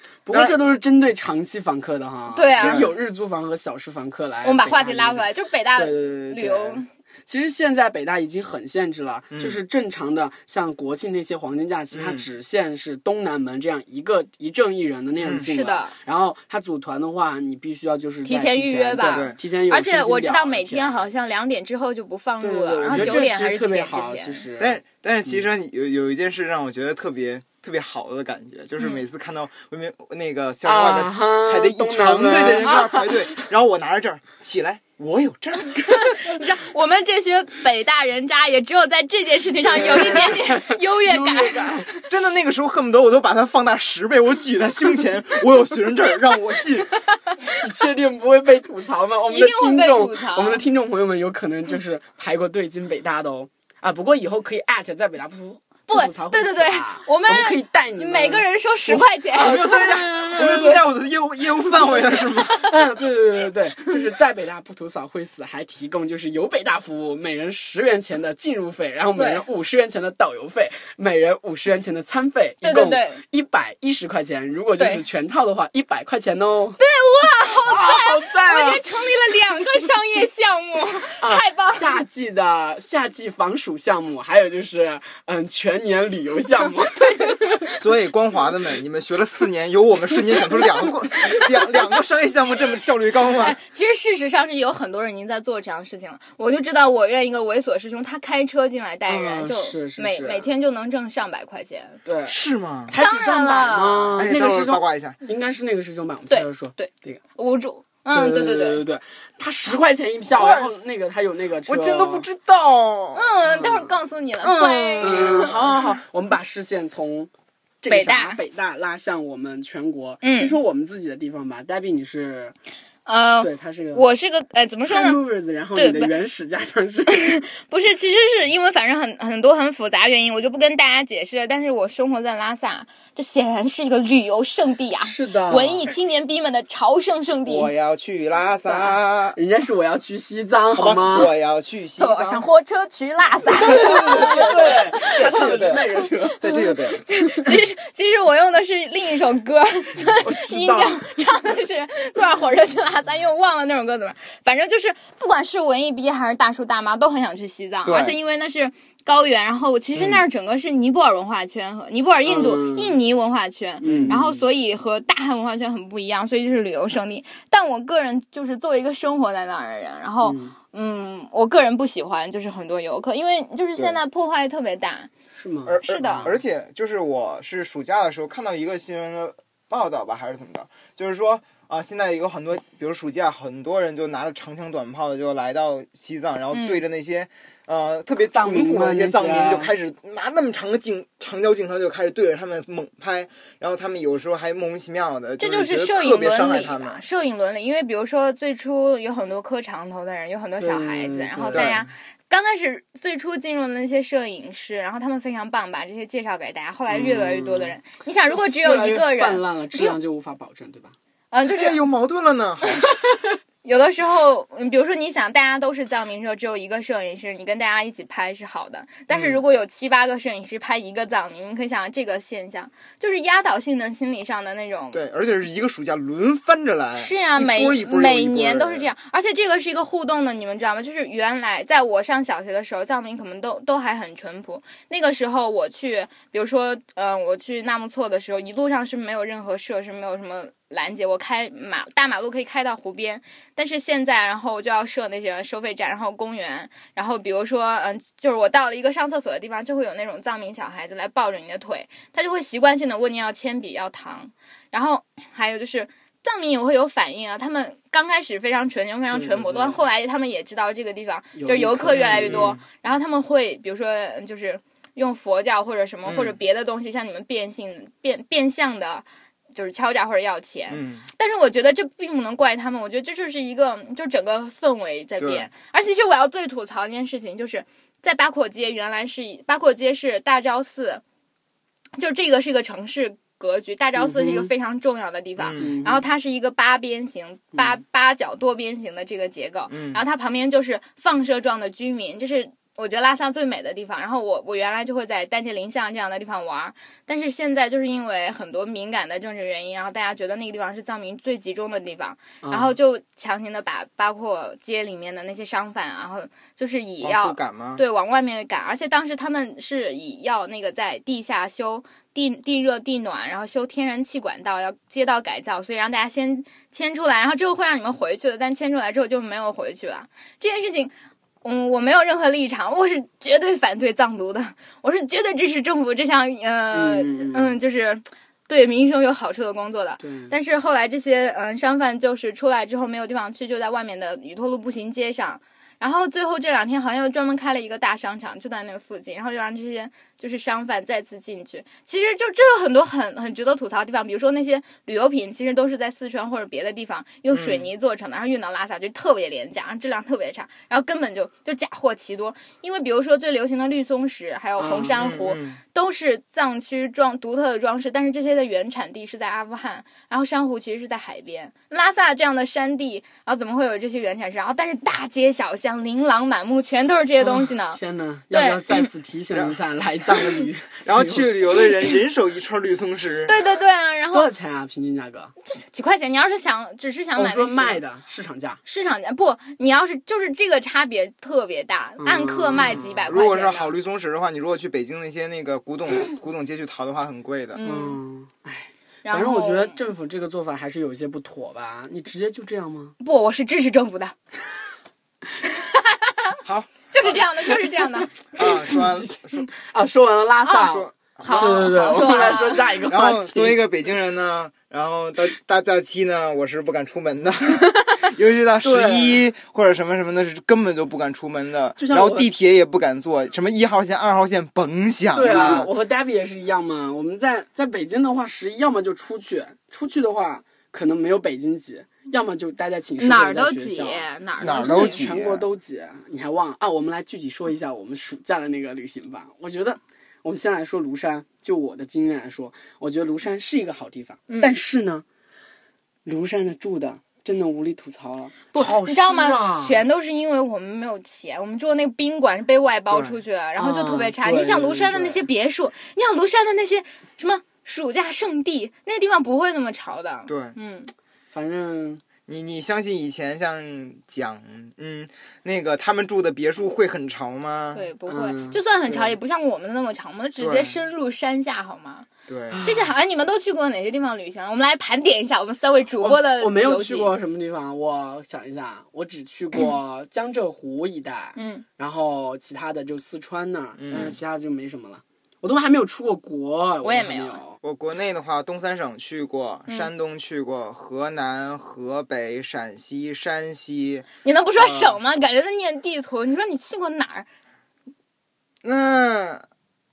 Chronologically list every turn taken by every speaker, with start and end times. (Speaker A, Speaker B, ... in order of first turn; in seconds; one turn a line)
Speaker A: 0.2-21.1
Speaker B: 0.3-0.6
Speaker C: 2.3-2.9
Speaker B: 2.6-2.9
Speaker C: 4.4-6.9
Speaker B: 9.3-9.6
Speaker B: 11.9-12.2
Speaker C: 15.5-15.9
Speaker C: 18.2-24.4
Speaker B: 19.1-19.4
Speaker A: 22.4-25.4
Speaker B: 22.9-23.2
Speaker B: 24.6-36.2
Speaker A: 30.6-33.2
Speaker C: 35.9-42.1
Speaker A: 39.7-41.9
Speaker B: 39.8-40.3
Speaker B: 42.1-46.9
Speaker A: 47.6-60.8
Speaker C: 49.3-50.6
Speaker C: 55.9-60.6
Speaker B: 58.9-62.6
Speaker C: 62.5-62.7
Speaker A: 62.6-76.8
Speaker C: 69.2-69.4
Speaker C: 72.6-73.2
Speaker C: 76.8-81.9
Speaker A: 77.7-78.8
Speaker A: 81.2-87.7
Speaker C: 87.0-87.4
Speaker B: 87.8-93.6
Speaker C: 93.4-102.0
Speaker A: 99.2-100.5
Speaker A: 102.1-107.2
Speaker B: 102.3-103.0
Speaker C: 103.0-104.2
Speaker B: 104.2-105.2
Speaker C: 106.3-108.8
Speaker A: 108.1-112.3
Speaker C: 110.3-110.8
Speaker B: 111.7-113.5
Speaker C: 113.1-115.6
Speaker A: 113.5-113.9
Speaker B: 114.4-115.6
Speaker A: 115.0-117.3
Speaker A: 117.8-122.6
Speaker C: 117.9-118.4
Speaker C: 120.2-120.6
Speaker C: 123.1-125.2
Speaker A: 123.4-124.0
Speaker A: 124.9-127.2
Speaker C: 125.8-126.1
Speaker C: 127.1-137.7
Speaker A: 135.0-135.9
Speaker B: 137.5-139.4
Speaker A: 138.7-141.3
Speaker B: 140.8-142.5
Speaker C: 142.0-145.5
Speaker B: 143.6-147.1
Speaker A: 143.6-146.4
Speaker C: 146.4-175.1
Speaker A: 150.2-151.2
Speaker B: 157.8-158.2
Speaker B: 160.0-160.2
Speaker A: 162.3-162.9
Speaker A: 163.8-164.4
Speaker B: 163.9-164.1
Speaker A: 170.2-170.6
Speaker A: 175.3-176.4
Speaker B: 175.7-197.0
Speaker C: 175.8-176.3
Speaker C: 186.5-186.8
Speaker A: 188.3-189.7
Speaker C: 195.4-210.0
Speaker A: 200.6-201.8
Speaker B: 201.5-201.9
Speaker A: 206.9-207.8
Speaker A: 208.3-210.9
Speaker C: 211.3-211.8
Speaker B: 211.5-212.8
Speaker C: 212.7-225.0
Speaker B: 219.1-219.4
Speaker B: 224.9-228.9
Speaker C: 227.0-281.0
Speaker A: 259.1-259.8
Speaker A: 261.4-262.6
Speaker B: 262.0-262.6
Speaker B: 266.1-266.4
Speaker B: 270.7-271.0
Speaker B: 275.2-275.5
Speaker C: 282.0-367.8
Speaker A: 284.0-284.5
Speaker B: 285.4-285.6
Speaker A: 285.6-286.0
Speaker B: 289.7-290.0
Speaker A: 302.4-302.8
Speaker B: 307.0-307.8
Speaker A: 326.7-327.6
Speaker A: 330.0-330.4
Speaker B: 347.3-347.7
Speaker A: 354.6-355.0
Speaker B: 355.0-355.6
Speaker A: 367.2-371.3
Speaker C: 368.3-368.9
Speaker B: 370.8-373.4
Speaker C: 373.3-374.3
Speaker A: 374.1-375.3
Speaker C: 375.5-377.8
Speaker A: 377.2-378.6
Speaker C: 378.6-383.7
Speaker A: 382.0-383.1
Speaker B: 383.1-387.6
Speaker C: 387.6-388.0
Speaker A: 387.6-392.9
Speaker C: 389.1-389.8
Speaker C: 393.0-394.1
Speaker C: 395.4-396.4
Speaker B: 396.4-397.2
Speaker C: 396.9-398.5
Speaker B: 398.3-399.5
Speaker A: 398.7-403.6
Speaker C: 400.5-402.7
Speaker B: 400.6-415.7
Speaker A: 408.6-409.2
Speaker A: 411.8-412.3
Speaker A: 415.1-435.1
Speaker C: 423.0-425.1
Speaker B: 424.4-425.5
Speaker C: 434.3-434.6
Speaker A: 436.1-439.8
Speaker C: 438.9-450.9
Speaker B: 442.9-443.2
Speaker A: 443.6-445.2
Speaker B: 450.3-450.6
Speaker A: 451.3-452.0
Speaker B: 452.3-457.9
Speaker C: 457.7-462.1
Speaker A: 458.1-459.1
Speaker B: 460.4-460.8
Speaker B: 462.3-462.6
Speaker A: 462.5-462.9
Speaker C: 462.6-467.1
Speaker A: 466.0-477.6
Speaker C: 471.4-471.6
Speaker B: 473.8-474.2
Speaker C: 476.8-477.4
Speaker B: 477.6-485.0
Speaker C: 484.2-487.3
Speaker B: 488.6-489.4